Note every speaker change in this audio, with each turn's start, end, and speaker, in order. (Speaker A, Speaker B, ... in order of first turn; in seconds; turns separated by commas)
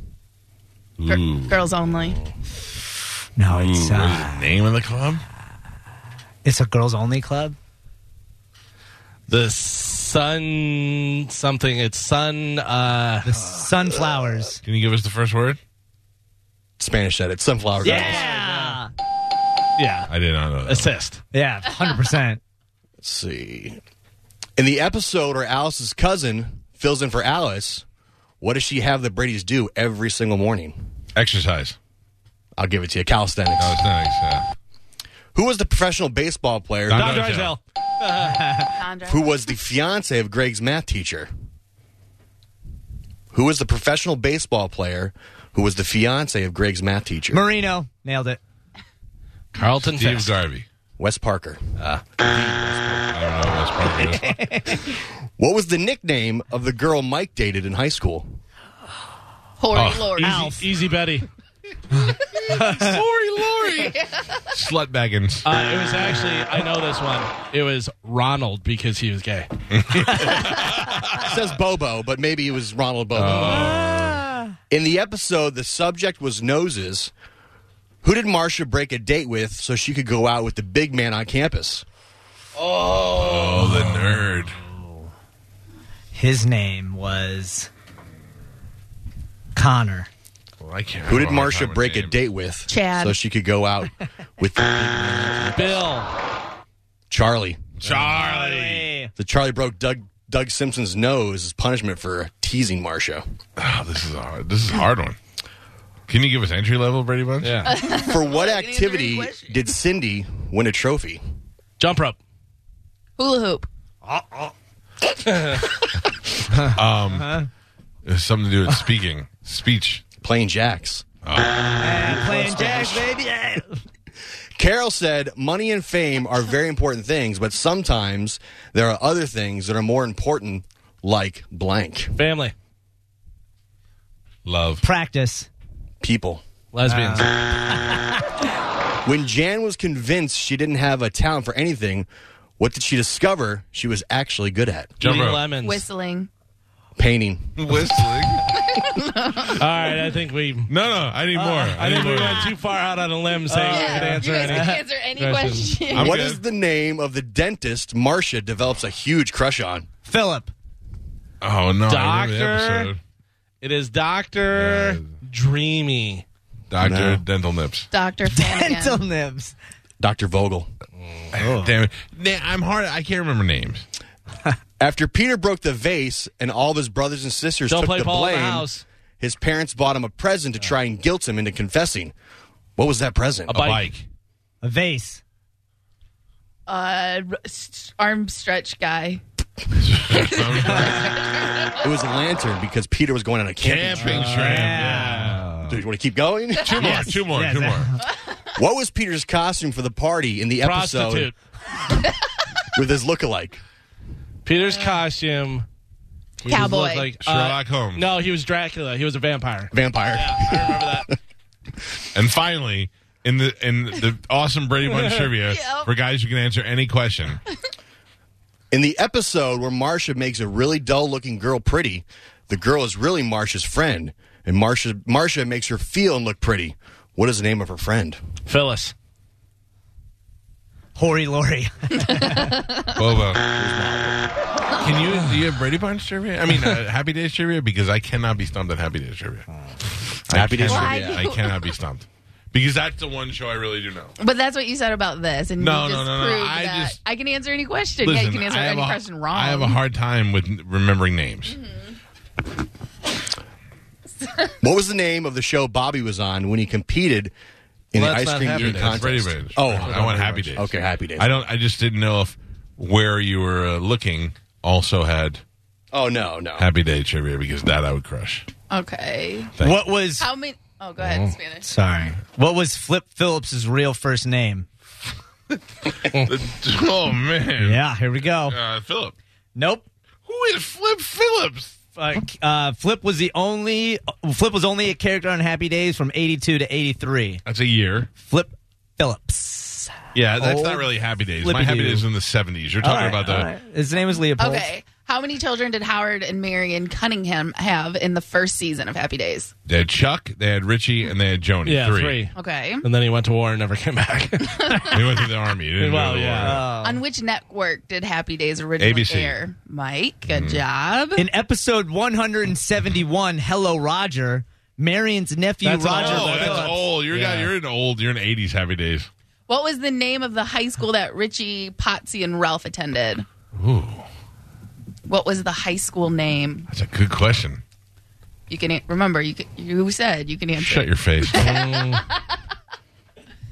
Speaker A: 1.0-1.7, Speaker B: 1.1-2.2, Speaker C: 3.4-4.5, Speaker A: 3.5-5.2, Speaker C: 6.4-7.6, Speaker D: 9.3-13.5, Speaker C: 13.2-14.6, Speaker A: 14.6-15.6, Speaker E: 16.8-18.3, Speaker D: 17.8-18.8, Speaker C: 17.8-18.9, Speaker D: 19.8-20.1, Speaker A: 20.1-20.9, Speaker D: 20.7-21.2, Speaker C: 21.3-22.4, Speaker E: 23.0-23.8, Speaker E: 24.6-27.9, Speaker E: 28.4-30.8, Speaker A: 31.1-31.8, Speaker E: 32.6-33.8, Speaker A: 33.6-34.5, Speaker E: 35.3-37.2, Speaker A: 36.9-37.5, Speaker D: 36.9-38.4, Speaker C: 38.2-38.7, Speaker B: 38.6-39.4, Speaker E: 39.1-41.3, Speaker E: 43.3-47.4, Speaker C: 47.3-48.4, Speaker D: 49.5-50.3, Speaker A: 49.8-50.7, Speaker E: 51.0-53.2, Speaker D: 51.8-52.0, Speaker A: 53.1-54.5, Speaker C: 54.2-54.8, Speaker E: 55.4-58.3, Speaker B: 59.6-60.5, Speaker A: 59.7-60.2, Speaker D: 60.2-61.3, Speaker C: 60.2-60.7, Speaker A: 62.3-65.5, Speaker C: 62.5-63.0, Speaker B: 63.6-64.4, Speaker D: 65.5-69.5, Speaker A: 69.7-71.4, Speaker E: 71.2-73.8, Speaker A: 73.2-74.2, Speaker D: 73.3-73.7, Speaker C: 73.6-74.5, Speaker E: 74.7-77.1, Speaker E: 78.0-81.8, Speaker A: 83.1-84.6, Speaker C: 83.4-85.1, Speaker C: 86.1-87.7, Speaker C: 89.5-90.1, Speaker A: 90.6-92.2, Speaker E: 91.1-96.0, Speaker B: 92.7-93.2, Speaker D: 95.5-96.1, Speaker E: 97.1-97.7, Speaker A: 97.8-98.9, Speaker C: 97.9-99.1, Speaker E: 99.2-103.2, Speaker A: 103.6-105.2, Speaker A: 106.1-107.7, Speaker D: 107.4-107.8, Speaker B: 107.7-109.6, Speaker E: 107.9-111.2, Speaker D: 111.8-112.2, Speaker B: 113.2-113.7, Speaker C: 114.1-114.5, Speaker D: 115.3-115.6, Speaker C: 116.6-117.5, Speaker A: 116.6-117.4, Speaker A: 118.0-120.1, Speaker E: 120.2-121.1, Speaker A: 121.2-122.2, Speaker C: 121.8-123.8, Speaker D: 122.0-122.8, Speaker E: 124.6-132.1, Speaker D: 132.2-132.5, Speaker A: 134.4-134.8, Speaker C: 134.8-135.5, Speaker E: 136.0-136.4, Speaker D: 136.7-137.4, Speaker C: 136.9-138.2, Speaker E: 139.1-142.1, Speaker E: 142.6-144.9, Speaker A: 145.0-145.5, Speaker D: 145.0-145.8, Speaker B: 145.6-146.3, Speaker E: 147.0-147.7, Speaker A: 147.6-148.5, Speaker B: 148.5-149.7, Speaker D: 149.6-150.7, Speaker A: 150.7-152.5, Speaker C: 151.3-152.4, Speaker D: 151.8-156.0, Speaker C: 153.5-154.8, Speaker B: 153.7-156.2, Speaker A: 155.9-156.4, Speaker E: 156.0-159.9, Speaker C: 160.1-160.5, Speaker A: 161.4-163.0, Speaker D: 161.9-162.9, Speaker D: 163.6-166.2, Speaker A: 164.5-165.1, Speaker A: 166.7-167.9, Speaker E: 166.8-167.2, Speaker B: 167.9-169.0, Speaker C: 168.3-169.5, Speaker E: 170.0-170.7, Speaker A: 171.3-173.8, Speaker C: 171.4-171.8, Speaker E: 174.8-182.1, Speaker D: 177.7-178.8, Speaker E: 182.8-183.6, Speaker A: 183.5-184.0, Speaker D: 183.5-183.9, Speaker C: 184.6-185.2, Speaker B: 186.7-189.2, Speaker A: 189.8-191.2, Speaker B: 190.1-191.7, Speaker E: 191.8-194.4, Speaker A: 193.6-195.4, Speaker D: 193.9-195.4, Speaker C: 194.0-195.8, Speaker E: 195.7-197.1, Speaker A: 196.6-197.9, Speaker C: 196.8-198.0, Speaker B: 198.1-198.3, Speaker E: 198.6-201.3, Speaker D: 200.6-201.3, Speaker E: 202.7-203.6, Speaker D: 204.4-205.7, Speaker D: 206.4-211.1, Speaker B: 206.5-207.2, Speaker A: 207.2-208.1, Speaker E: 209.7-211.2, Speaker A: 212.1-217.4, Speaker D: 214.8-215.3, Speaker B: 215.5-215.9, Speaker E: 218.7-228.2, Speaker D: 228.5-228.9, Speaker C: 231.0-232.6, Speaker B: 232.0-233.0, Speaker A: 232.9-233.5, Speaker E: 233.4-234.3, Speaker A: 234.8-239.5, Speaker E: 240.3-241.3, Speaker A: 240.3-244.1, Speaker B: 240.7-241.7, Speaker B: 244.2-249.8, Speaker A: 245.6-247.0, Speaker A: 248.0-251.6, Speaker B: 251.5-251.8, Speaker E: 254.6-257.3, Speaker E: 257.9-261.3, Speaker D: 257.9-260.6, Speaker A: 258.6-265.4, Speaker E: 265.9-266.7, Speaker A: 266.6-268.5, Speaker B: 268.7-269.6, Speaker A: 269.6-269.9, Speaker C: 269.6-270.3, Speaker B: 270.1-271.7, Speaker D: 271.0-271.3, Speaker C: 271.6-274.7, Speaker A: 275.9-277.8, Speaker C: 277.6-278.6, Speaker A: 278.4-279.1, Speaker C: 279.6-279.9, Speaker A: 280.3-281.8, Speaker C: 282.0-287.4, Speaker A: 287.4-288.1, Speaker C: 288.2-290.9, Speaker A: 290.1-293.5, Speaker C: 291.4-292.1, Speaker C: 292.8-294.7, Speaker B: 294.4-299.5, Speaker A: 299.7-302.3, Speaker D: 301.6-304.9, Speaker B: 302.3-302.9, Speaker B: 304.4-304.9, Speaker A: 304.8-306.7, Speaker D: 305.8-306.6, Speaker C: 306.4-307.0, Speaker B: 306.8-311.2, Speaker A: 308.8-309.4, Speaker A: 310.3-310.6, Speaker C: 311.2-316.8, Speaker D: 315.6-317.5, Speaker A: 315.9-319.1, Speaker B: 319.5-323.3, Speaker A: 323.5-324.1, Speaker B: 325.1-326.7, Speaker A: 326.7-327.6, Speaker B: 328.5-332.4, Speaker A: 330.6-331.6, Speaker D: 331.3-332.0